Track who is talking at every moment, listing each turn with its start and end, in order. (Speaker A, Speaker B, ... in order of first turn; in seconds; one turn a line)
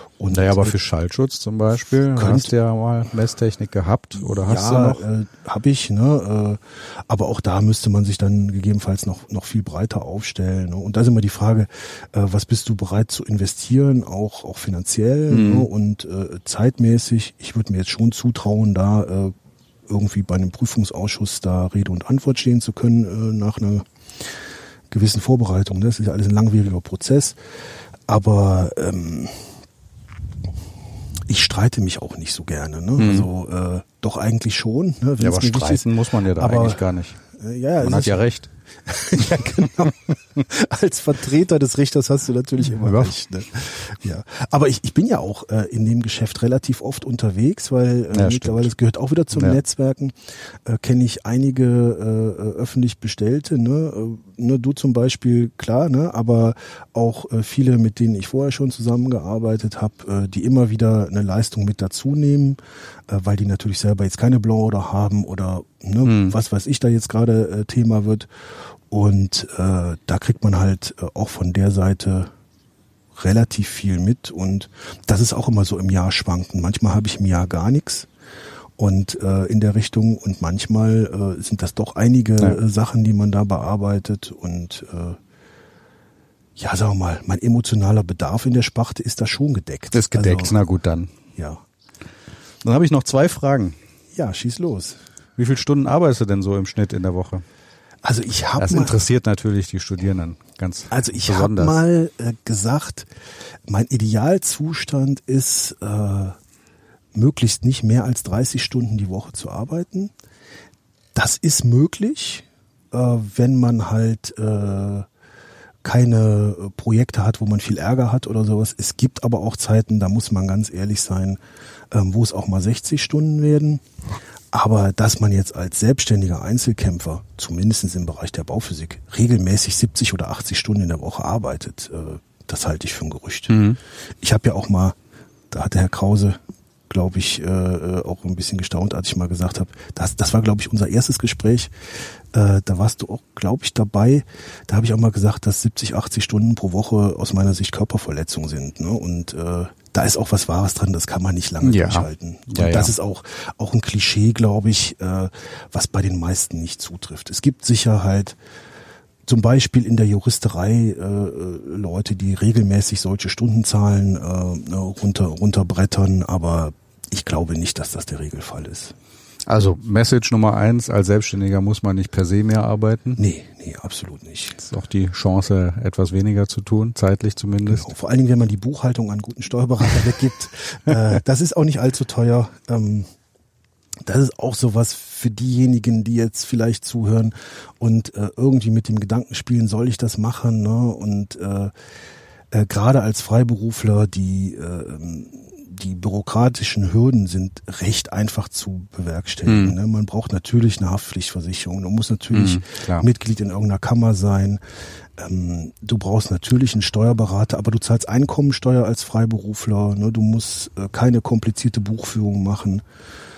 Speaker A: 0.2-0.8
Speaker B: 0.3-5.0
Speaker A: 2.1-2.5
Speaker A: 4.2-19.3
Speaker B: 15.3-15.7
Speaker A: 19.9-23.9
Speaker A: 24.9-27.4
Speaker A: 28.1-29.5
Speaker A: 31.3-38.2
Speaker B: 33.0-33.3
Speaker B: 35.2-37.2
Speaker B: 37.8-38.5
Speaker A: 38.9-68.3
Speaker B: 39.2-40.1
Speaker B: 42.7-43.1
Speaker B: 48.1-48.7
Speaker B: 49.3-49.6
Speaker B: 66.0-66.4
Speaker A: 68.9-72.3
Speaker A: 73.2-78.1
Speaker A: 78.8-85.2
Speaker A: 86.6-90.5
Speaker B: 89.9-91.1
Speaker A: 91.4-91.6
Speaker B: 92.6-93.8
Speaker A: 94.2-95.0
Speaker B: 95.4-97.4
Speaker A: 98.0-99.0
Speaker B: 98.6-101.8
Speaker A: 100.9-103.1
Speaker A: 103.7-106.4
Speaker A: 107.1-110.1
Speaker A: 111.2-115.1
Speaker A: 115.8-121.4
Speaker A: 121.9-123.8
Speaker A: 124.5-133.6
Speaker B: 133.5-133.8
Speaker A: 134.2-135.0
Speaker A: 135.5-141.7
Speaker A: 142.3-158.4
Speaker B: 151.6-152.9
Speaker A: 159.3-168.9
Speaker B: 169.5-173.2
Speaker A: 173.2-174.6
Speaker B: 174.6-177.9
Speaker A: 177.7-183.1
Speaker A: 184.0-191.7
Speaker A: 192.5-204.6
Speaker B: 199.5-199.8
Speaker B: 202.3-203.1
Speaker A: 205.2-212.8